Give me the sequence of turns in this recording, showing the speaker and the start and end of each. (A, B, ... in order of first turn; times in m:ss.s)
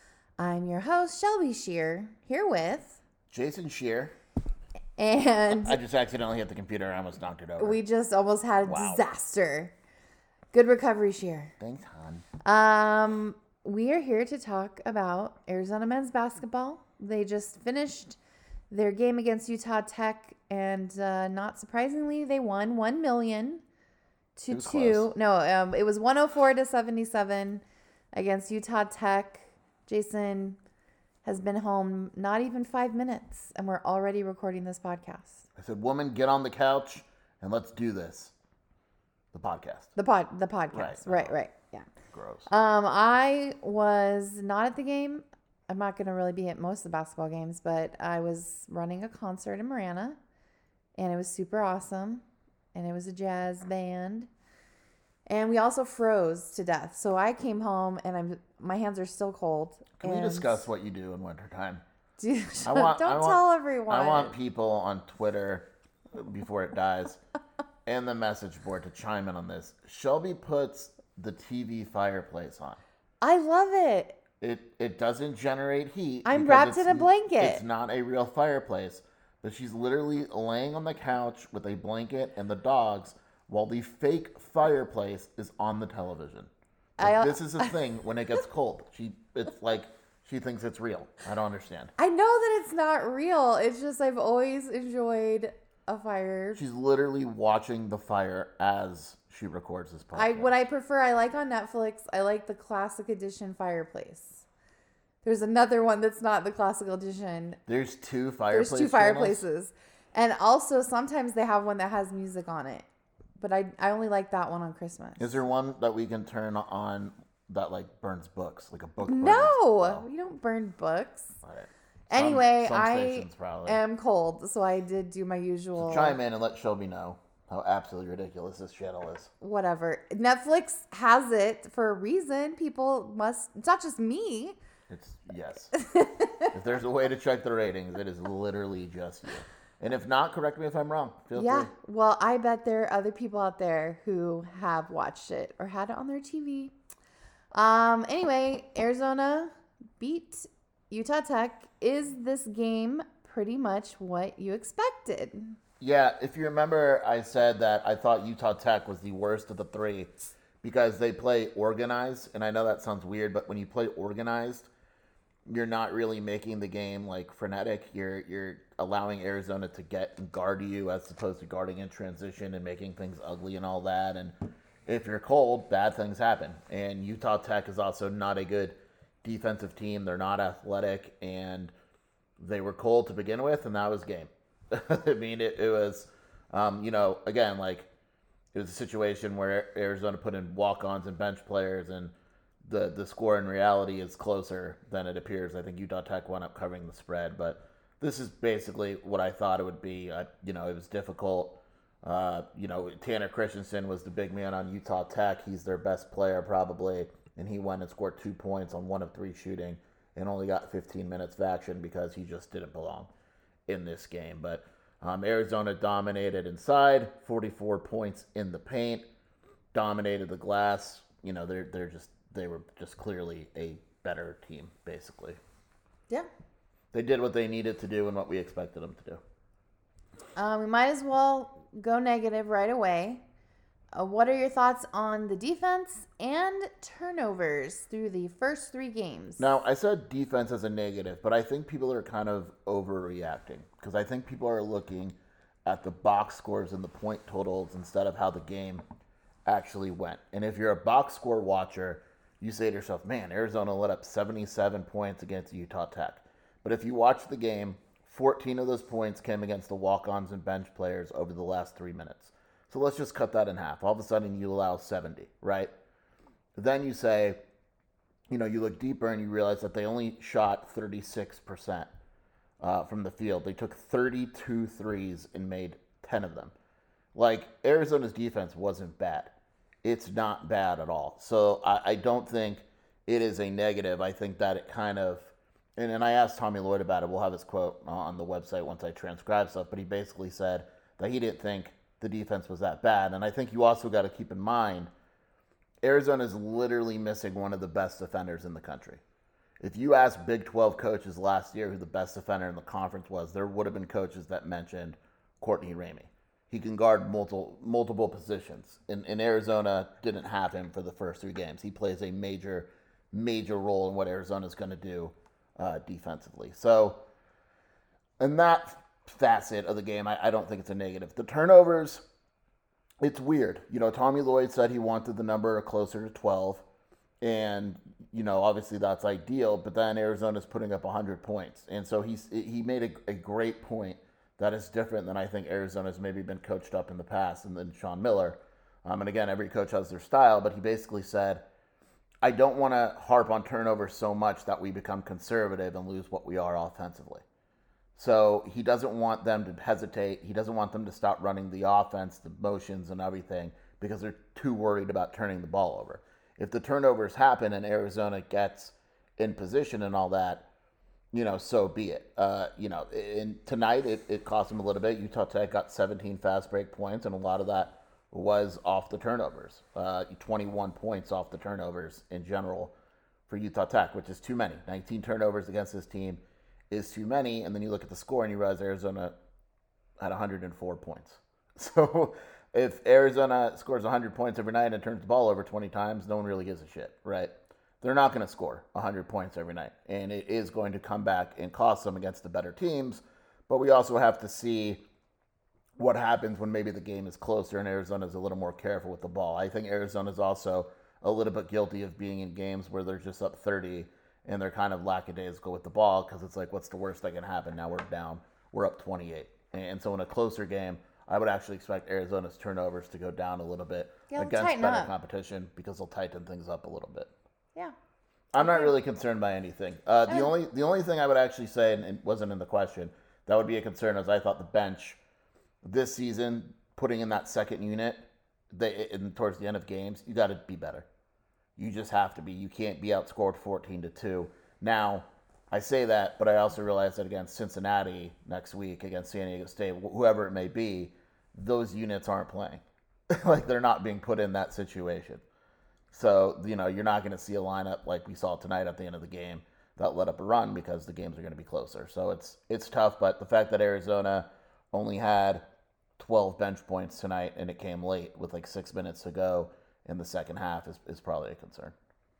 0:00.4-0:03.0 A
0:03.3-0:04.2 B
0:05.0-0:05.8 A
0:05.5-0:07.8 B
0:07.6-0:09.7 A
0:08.6-0:09.0 B
0:10.5-0:11.5 A
0:11.6-0:12.2 B
0:12.4-0:18.2 A
0:18.7-0:23.6 A
0:24.4-0:30.6 A
0:24.5-0:25.1 B
0:31.2-0:35.5 A
0:35.6-0:38.3 B
0:39.3-0:39.9 B
0:40.0-0:41.9 A
0:40.7-0:41.4 B
0:42.1-0:42.5 B
0:42.5-0:50.2 A
0:51.0-0:52.2 A
0:52.7-0:54.3 A
0:55.3-1:00.6 A
1:00.0-1:01.8 B
1:02.2-1:04.4 A
1:02.6-1:07.2 B
1:07.9-1:12.8 B
1:13.2-1:14.2 A
1:14.4-1:31.9 B
1:16.2-1:17.6 A
1:27.0-1:27.8 A
1:32.0-1:36.6 A
1:36.6-1:40.5 B
1:40.1-1:44.4 A
1:45.2-1:47.6 A
1:47.7-1:49.4 B
1:48.5-1:52.9 A
1:53.4-1:55.4 A
1:55.2-2:00.1 B
1:59.0-2:01.4 A
2:01.4-2:03.8 B
2:02.1-2:06.2 A
2:05.8-2:09.3 B
2:09.4-2:14.6 A
2:14.9-2:15.7 B
2:15.8-2:16.4 A
2:16.5-2:21.7 B
2:21.4-2:26.7 A
2:27.5-2:35.6 A
2:35.8-2:40.1 B
2:40.6-2:44.7 B
2:45.5-2:54.4 B
2:54.9-3:01.7 B
3:02.4-3:07.9 B
3:08.5-3:12.1 B
3:12.6-3:33.1 B
3:33.7-3:39.0 B
3:39.7-3:45.4 B
3:46.9-3:49.2 B
3:50.4-3:53.2 A
3:53.9-3:59.6 A
3:59.4-4:08.8 B
4:09.5-4:25.7 B
4:26.6-4:27.4 B
4:28.3-4:31.9 B
4:32.6-4:36.5 B
4:37.2-4:54.9 B
4:55.8-4:59.0 B
4:59.6-5:17.0 B
5:18.2-5:22.0 B
5:23.0-5:26.6 B
5:27.2-5:41.4 B
5:42.2-5:47.2 B
5:48.0-6:00.5 B
6:01.1-6:12.7 B
6:13.3-6:19.1 B
6:20.0-6:34.8 B
6:35.8-6:57.1 B
6:54.1-6:54.9 A
6:58.3-7:05.0 B
6:58.4-6:58.7 A
7:00.1-7:00.3 A
7:05.6-7:10.9 B
7:11.6-7:25.2 B
7:25.9-7:35.4 B
7:36.0-7:41.7 B